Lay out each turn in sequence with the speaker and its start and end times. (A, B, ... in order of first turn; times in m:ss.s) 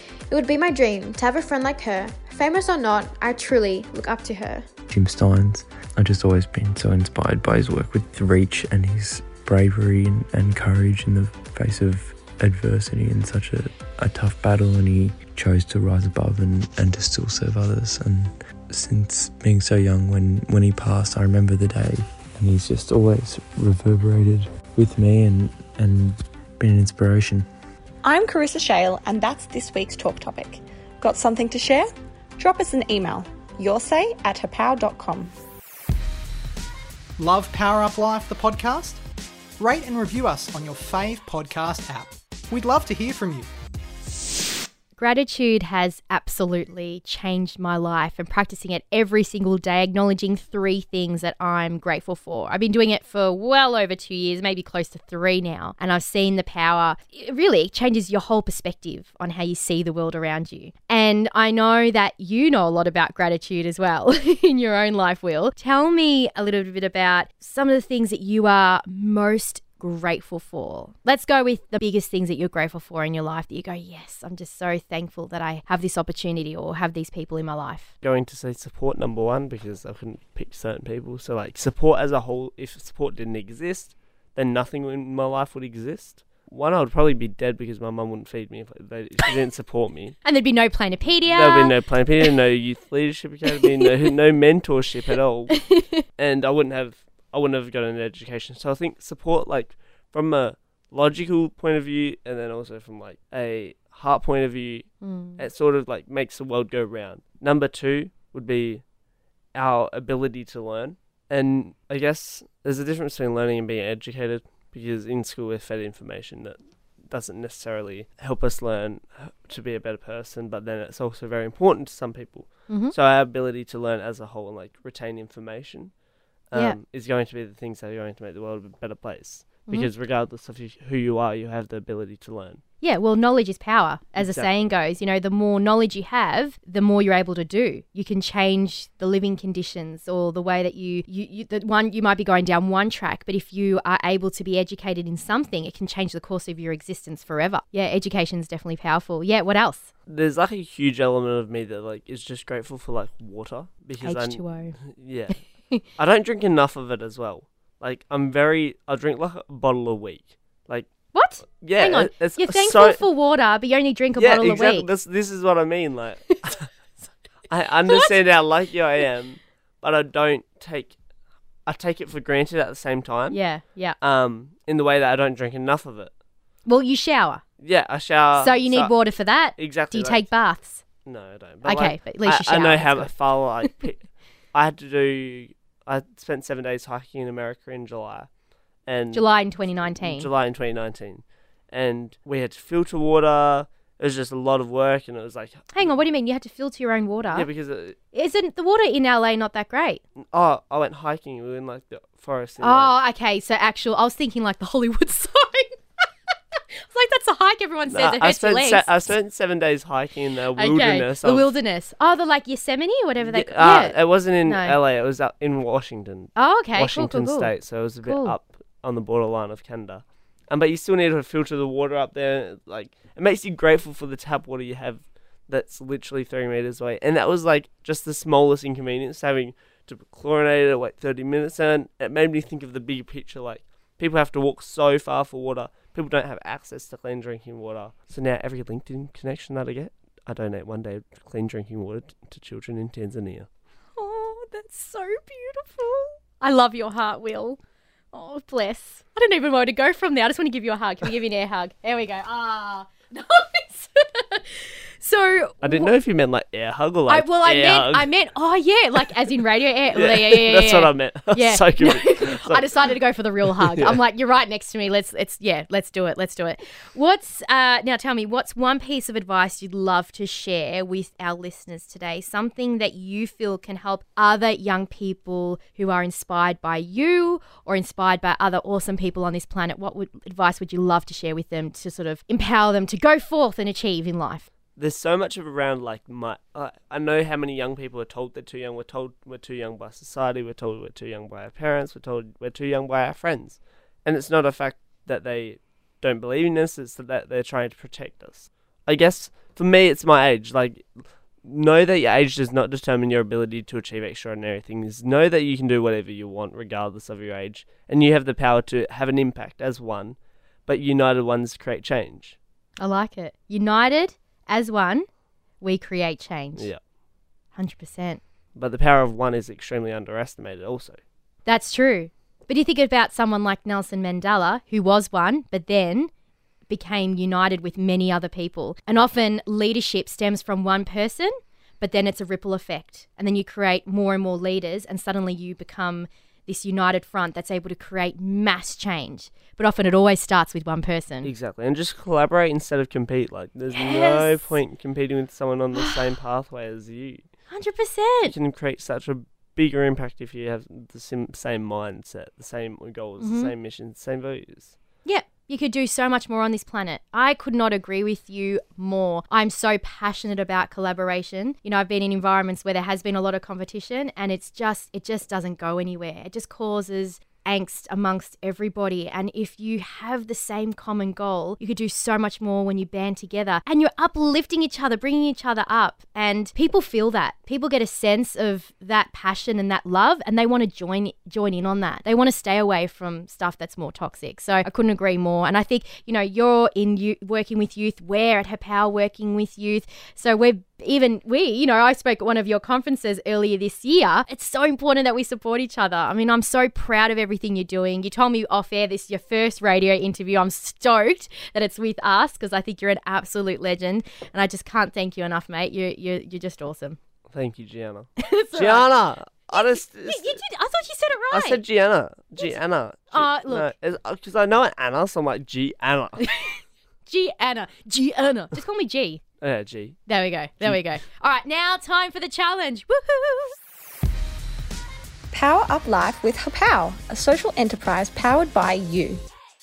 0:00.3-0:04.7 A
0:04.9-0:27.5 B
0:28.0-0:31.8 C
0:32.4-0:35.3 C
0:37.2-0:38.9 D
0:39.6-0:43.5 D
0:45.0-1:17.9 E
1:18.0-1:30.2 F
1:30.2-1:31.8 E
1:31.3-1:48.8 F
1:35.5-1:36.0 E
1:45.0-1:45.4 E
1:49.5-2:12.6 F
2:02.7-2:02.9 E
2:06.5-2:06.8 E
2:12.8-2:29.9 E
2:14.2-2:14.5 F
2:30.1-2:43.0 F
2:34.0-2:34.8 E
2:41.1-2:44.9 E
2:44.2-2:46.7 F
2:47.5-2:51.0 F
2:51.6-2:53.4 F
2:53.3-2:54.0 E
2:54.0-2:56.1 F
2:56.7-2:57.4 E
2:57.6-3:00.3 F
2:58.4-3:00.8 E
3:01.0-3:08.3 F
3:01.6-3:03.7 E
3:08.8-3:15.9 F
3:09.1-3:10.3 E
3:15.7-3:17.5 E
3:17.3-3:18.0 F
3:18.1-3:20.0 E
3:20.2-3:22.9 F
3:22.6-3:25.8 E
3:26.9-3:29.1 E
3:27.9-3:31.6 F
3:30.6-3:34.8 E
3:33.2-4:03.5 F
3:36.4-3:38.4 E
4:04.0-4:07.6 E
4:08.1-4:15.9 E
4:15.6-4:18.1 F
4:17.1-4:44.5 E
4:19.9-4:22.7 F
4:23.6-4:24.0 F
4:44.8-5:12.4 F
5:12.8-5:15.1 E
5:15.6-5:16.7 E
5:16.6-5:16.8 F
5:17.6-5:18.2 E
5:18.6-5:21.0 F
5:21.5-5:26.1 E
5:26.7-5:41.3 E
5:41.2-5:47.4 F
5:43.7-5:44.6 E
5:45.8-5:46.0 E
5:47.5-5:48.4 E
5:48.2-5:54.8 F
5:53.2-5:53.5 E
5:55.0-6:47.0 E
6:47.3-6:50.4 F
6:48.2-6:51.6 E
6:51.3-6:56.2 F
6:53.1-6:53.7 E
6:56.2-6:59.2 E
6:59.4-7:00.0 F
7:00.1-7:03.6 E
7:05.3-7:09.2 C